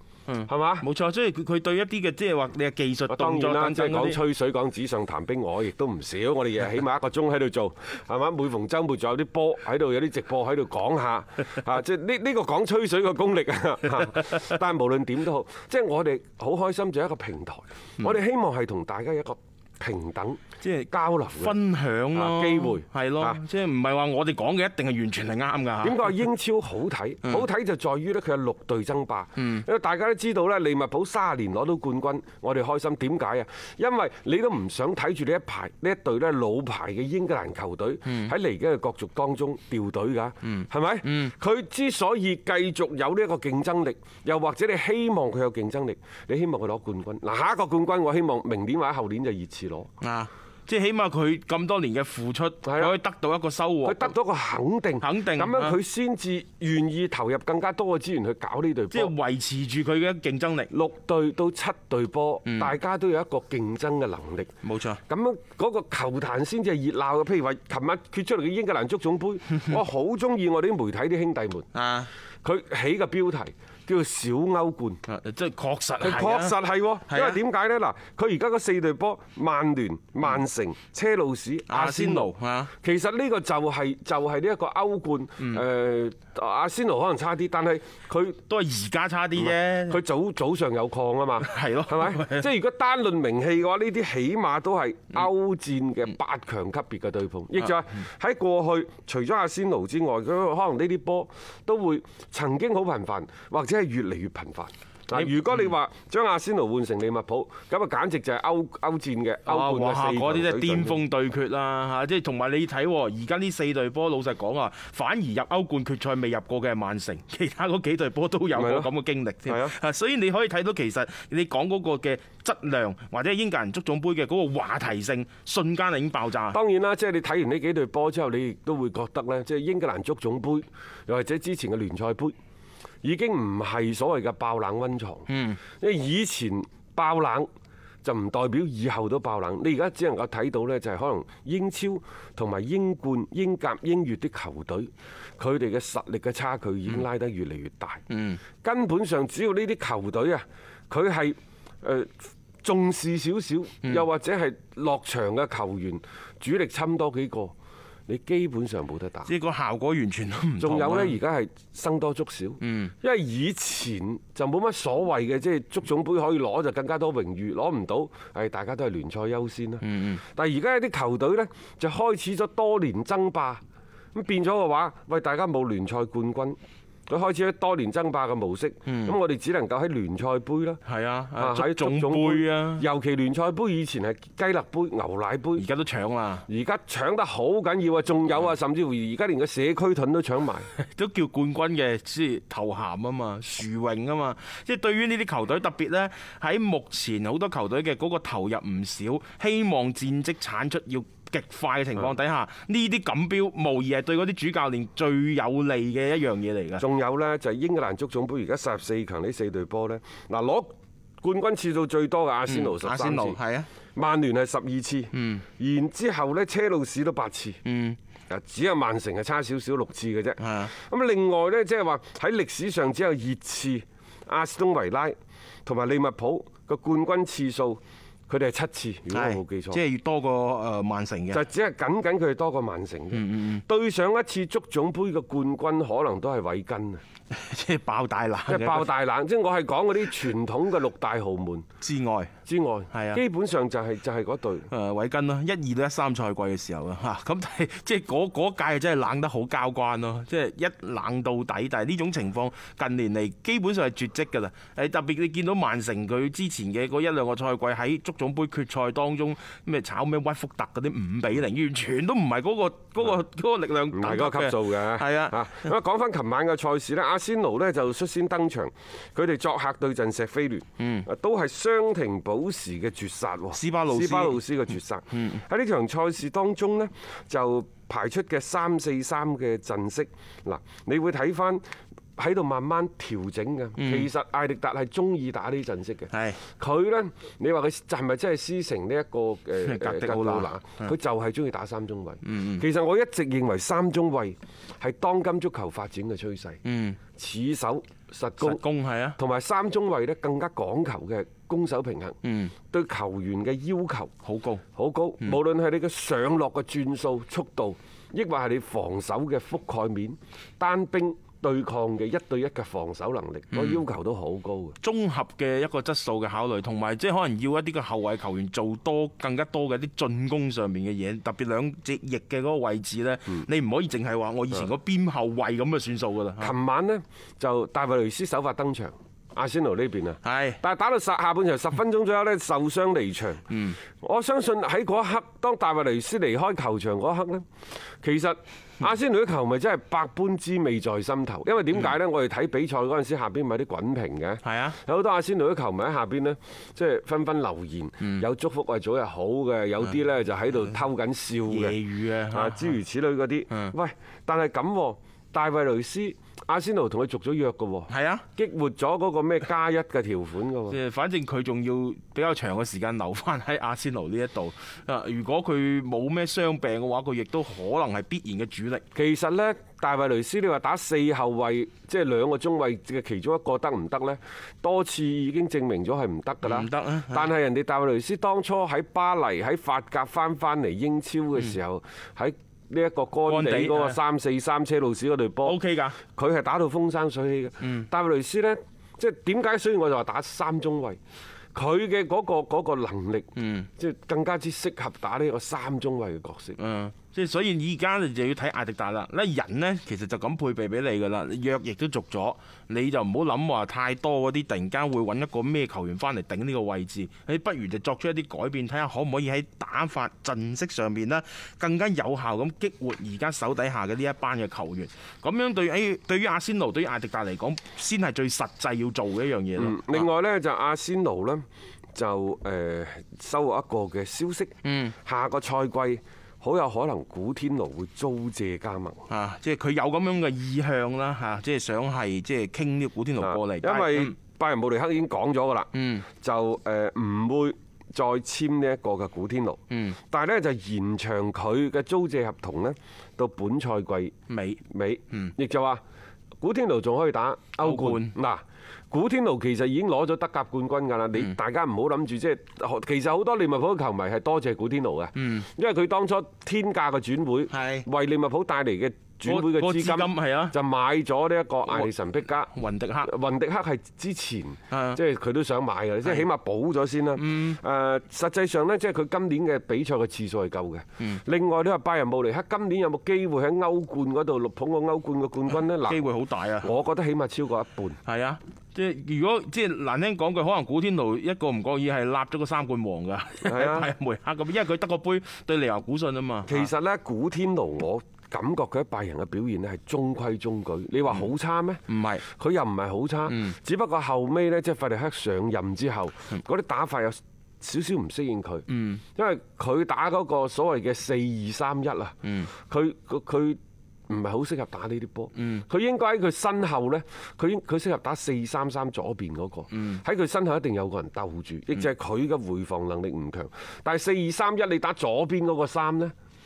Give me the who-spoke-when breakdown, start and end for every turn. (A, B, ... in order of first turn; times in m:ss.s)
0:00.3-0:04.2 A
0:00.5-0:00.9 B
0:03.1-0:21.6 B
0:20.6-0:26.2 A
0:22.1-0:23.4 B
0:25.8-0:49.9 B
0:29.4-0:29.7 A
0:38.1-0:38.3 A
0:40.4-0:41.3 A
0:50.0-0:54.1 A
0:52.6-0:53.0 B
0:53.8-0:59.1 B
0:55.0-0:55.8 A
0:58.9-1:00.7 A
1:00.7-1:04.5 B
1:02.4-1:02.7 A
1:04.6-1:05.0 A
1:05.1-1:11.7 B
1:11.7-1:12.1 A
1:12.4-1:15.0 B
1:15.0-1:17.4 A
1:16.0-1:28.4 B
1:21.7-1:22.7 A
1:25.4-1:25.6 A
1:28.5-1:30.0 A
1:29.4-1:51.0 B
1:31.4-1:32.5 A
1:45.1-1:45.7 A
1:49.5-2:06.6 A
1:58.5-1:58.9 B
1:59.4-1:59.8 B
2:06.5-2:12.3 B
2:13.0-2:15.3 B
2:15.3-2:15.6 A
2:15.8-2:17.5 B
2:18.0-2:28.0 B
2:28.1-2:28.4 A
2:28.6-2:37.5 B
2:38.1-2:39.3 B
2:39.2-2:41.2 A
2:40.6-2:53.6 B
2:42.6-2:42.9 A
2:49.8-2:50.2 A
2:54.1-3:00.8 B
2:58.9-2:59.2 A
3:00.8-3:02.9 A
3:01.4-3:05.7 B
3:05.6-3:06.5 A
3:06.5-3:10.7 B
3:10.8-3:26.8 A
3:26.8-3:33.4 B
3:32.5-3:33.7 A
3:34.0-3:37.6 B
3:35.1-3:35.4 A
3:37.6-3:38.0 A
3:38.3-3:49.8 B
3:40.4-3:40.7 A
3:49.1-3:51.4 A
3:51.3-3:57.0 B
3:53.1-3:53.6 A
3:57.3-3:58.9 A
3:58.5-4:01.6 B
4:01.8-4:02.3 A
4:02.5-4:04.7 B
4:02.9-4:03.2 A
4:04.7-4:25.8 A
4:23.9-4:41.6 B
4:30.8-4:31.1 A
4:33.5-4:34.4 A
4:35.1-4:35.4 A
4:42.2-4:56.6 B
4:43.8-4:44.1 A
4:46.1-4:46.4 A
4:49.6-4:50.9 A
4:52.2-4:52.6 A
4:56.6-4:57.0 A
4:57.2-4:58.6 B
4:58.4-4:59.2 A
4:59.2-5:02.2 B
5:02.2-5:02.6 A
5:02.7-5:04.1 B
5:04.2-5:04.6 A
5:04.8-5:14.8 B
5:13.5-5:13.8 A
5:14.8-5:26.5 A
5:26.4-5:33.5 B
5:30.2-5:30.6 A
5:33.5-5:33.8 A
5:34.0-5:37.5 B
5:38.0-6:00.8 B
5:44.4-5:44.8 A
5:51.5-5:52.8 A
5:57.9-5:58.3 A
6:00.7-6:08.8 A
6:09.0-6:25.6 B
6:16.4-6:17.3 A
6:23.2-6:24.0 A
6:25.4-6:26.0 A
6:26.2-6:31.0 B
6:27.6-6:27.9 A
6:31.5-6:36.6 B
6:33.4-6:33.7 A
6:36.6-7:00.1 A
6:59.6-7:04.5 B
7:04.6-7:05.0 A
7:05.0-7:09.1 B
7:09.1-7:14.2 A
7:13.2-7:15.7 B
7:15.7-7:16.1 A
7:16.2-7:19.6 B
7:19.7-7:20.0 A
7:20.1-7:24.1 B
7:24.3-7:25.3 A
7:24.7-7:25.8 B
7:26.4-7:42.5 B
7:27.6-7:28.2 A
7:35.2-7:35.5 A
7:37.5-7:37.9 A
7:39.2-7:40.6 A
7:41.7-7:43.1 A
7:43.0-7:56.0 B
7:44.7-7:45.0 A
7:47.2-7:47.6 A
7:55.8-7:56.7 A
7:56.6-7:58.0 B
7:58.0-8:06.7 A
8:03.4-8:03.9 B
8:06.5-8:36.1 B
8:11.9-8:12.2 A
8:13.3-8:13.6 A
8:18.7-8:19.0 A
8:22.2-8:22.5 A
8:25.4-8:25.6 A
8:29.7-8:30.0 A